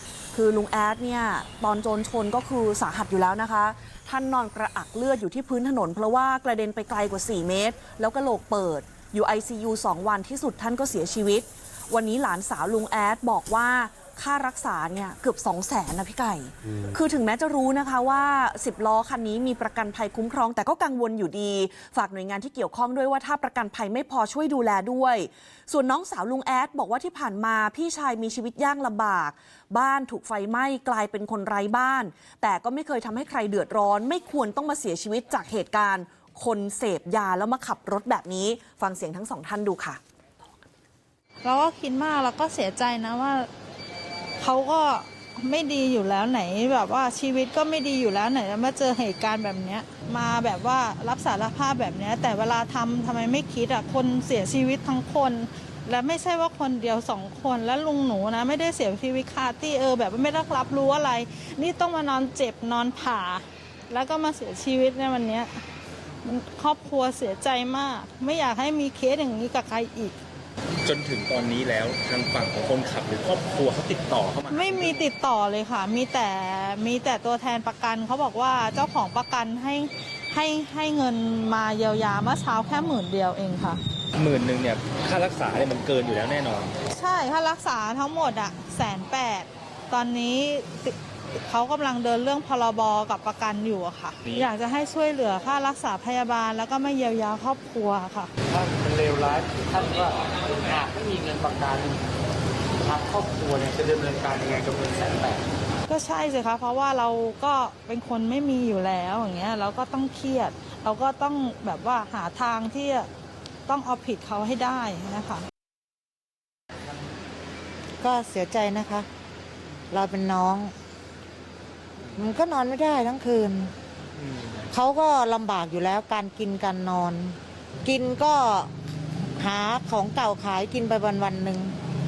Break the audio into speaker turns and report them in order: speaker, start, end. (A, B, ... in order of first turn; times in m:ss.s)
0:00.3-0:40.0 A
0:41.4-0:43.5 B
0:44.4-1:05.5 B
1:06.2-1:10.2 B
1:10.8-1:15.0 C
1:14.5-1:23.8 B
1:24.2-1:26.7 C
1:26.9-1:38.3 B
1:38.4-1:42.1 D
1:42.8-1:45.5 D
1:45.9-1:53.1 B
1:53.7-1:55.4 B
1:58.0-1:59.1 E
1:59.9-2:00.7 E
2:02.1-2:03.7 E
2:04.7-2:08.7 E
2:09.4-2:11.7 E